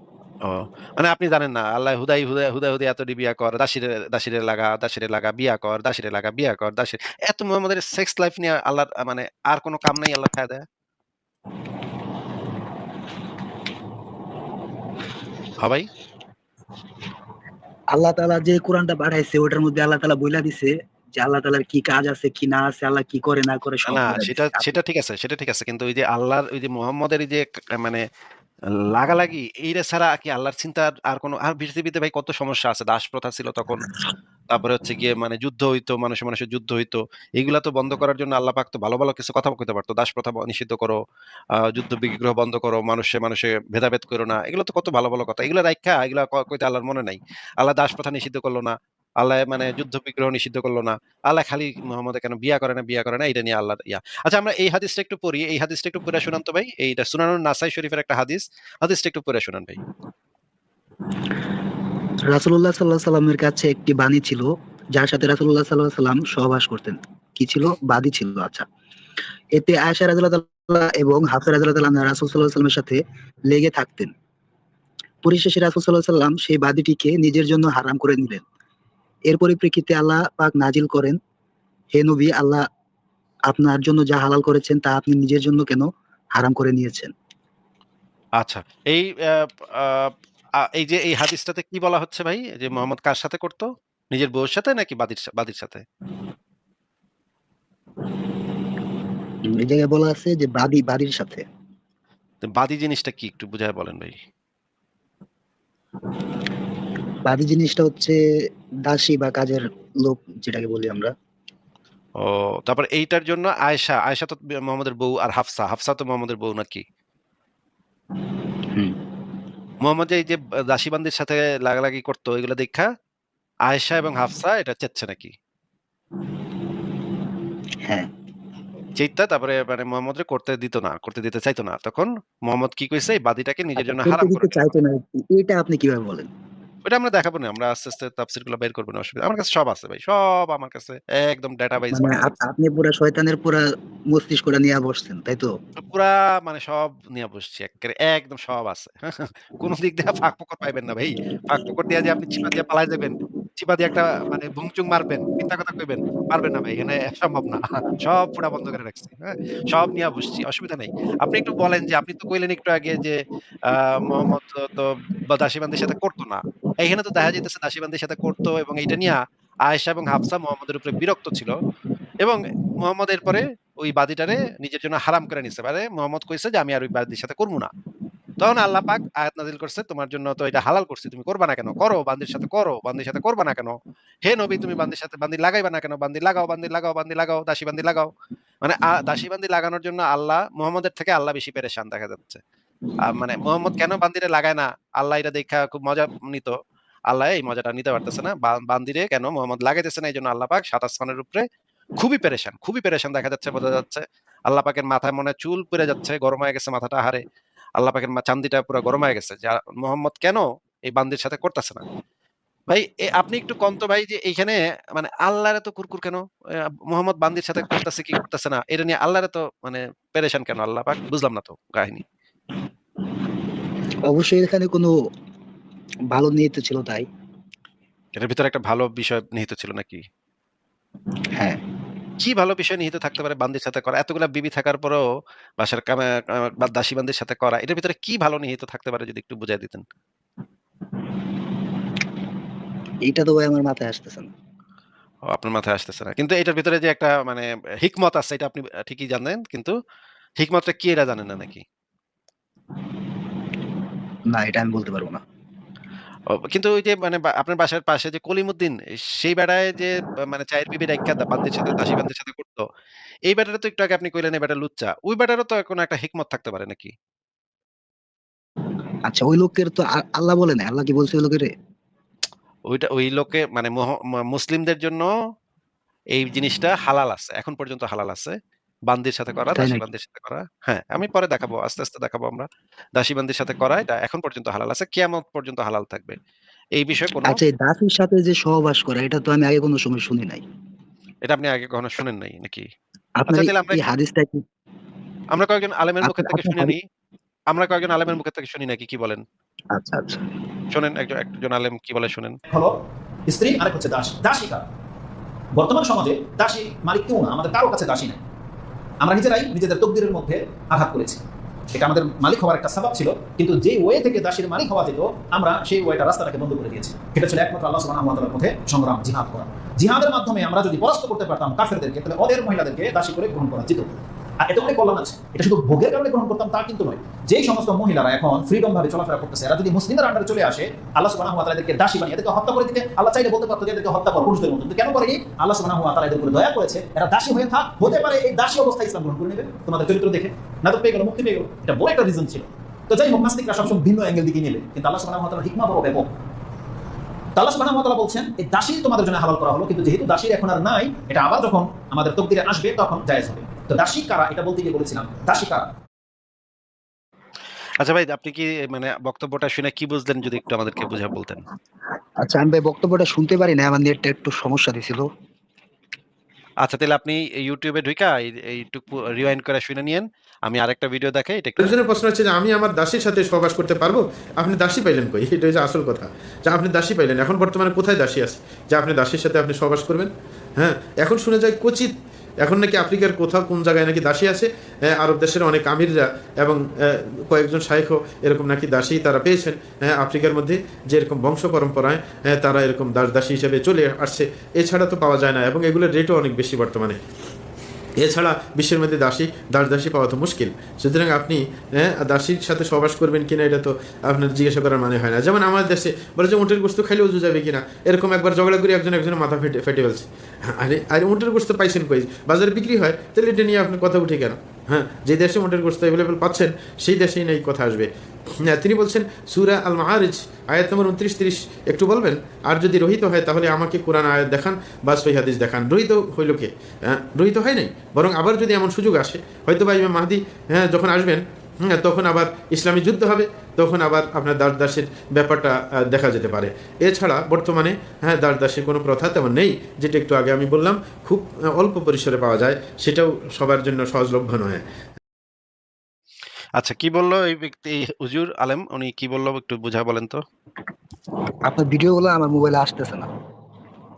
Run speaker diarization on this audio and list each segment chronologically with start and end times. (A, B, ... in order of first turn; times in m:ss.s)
0:00.4-0:10.6 A
0:15.6-0:15.9 A
0:17.9-0:24.8 B
0:23.9-0:28.0 A
0:28.9-0:33.9 A
0:34.5-0:41.0 A
0:41.6-0:59.8 A
1:02.2-1:08.6 B
1:09.5-1:14.1 B
1:15.2-1:18.4 B
1:19.3-1:21.2 B
1:21.9-1:22.6 B
1:23.5-1:27.1 B
1:28.4-1:35.8 A
1:39.5-1:41.4 B
1:42.4-1:44.2 A
1:47.2-1:48.2 B
1:48.8-1:51.1 B
1:52.2-1:56.8 A
1:59.8-2:02.9 A
2:03.7-2:05.3 A
2:09.0-2:14.7 A
2:13.8-2:16.3 B
2:16.8-2:22.3 A
2:21.9-2:25.5 B
2:25.8-2:51.6 A
2:52.2-2:57.7 A
2:58.4-3:08.1 A
3:08.6-3:12.4 A
3:13.0-3:16.6 A
3:17.1-3:21.4 A
3:22.0-3:27.2 A
3:27.8-3:31.8 A
3:32.7-3:42.0 A
3:44.1-3:44.9 B
3:46.1-3:47.1 B
3:48.2-3:50.0 A
3:52.2-3:55.0 A
3:55.6-3:59.8 A
4:03.1-4:04.3 B
4:05.3-4:09.7 A
4:10.4-4:11.6 A
4:14.3-4:15.2 B
4:16.3-4:22.6 A
4:23.3-4:26.9 A
4:29.1-4:31.5 B
4:32.7-4:35.1 A
4:36.1-4:38.4 A
4:38.9-4:46.2 A
4:39.5-4:39.8 B
4:46.8-4:47.4 A
4:47.2-4:50.4 B
4:51.2-4:52.7 A
4:53.2-4:54.4 B
4:53.3-4:53.8 A
4:55.3-4:56.8 A
4:56.0-4:56.7 B
4:57.5-4:59.2 A
4:59.7-5:00.3 B
5:00.7-5:02.4 A
5:02.5-5:02.8 C
5:03.3-5:04.6 C
5:05.5-5:08.2 C
5:09.0-5:46.1 C
5:47.4-5:55.7 C
5:57.8-6:01.4 A
6:02.2-6:05.1 B
6:06.6-6:11.7 A
6:11.6-6:21.9 D
6:22.4-6:37.0 D
6:38.0-6:57.9 D
6:58.4-7:24.6 D
7:26.6-7:30.2 A
7:31.5-7:33.1 B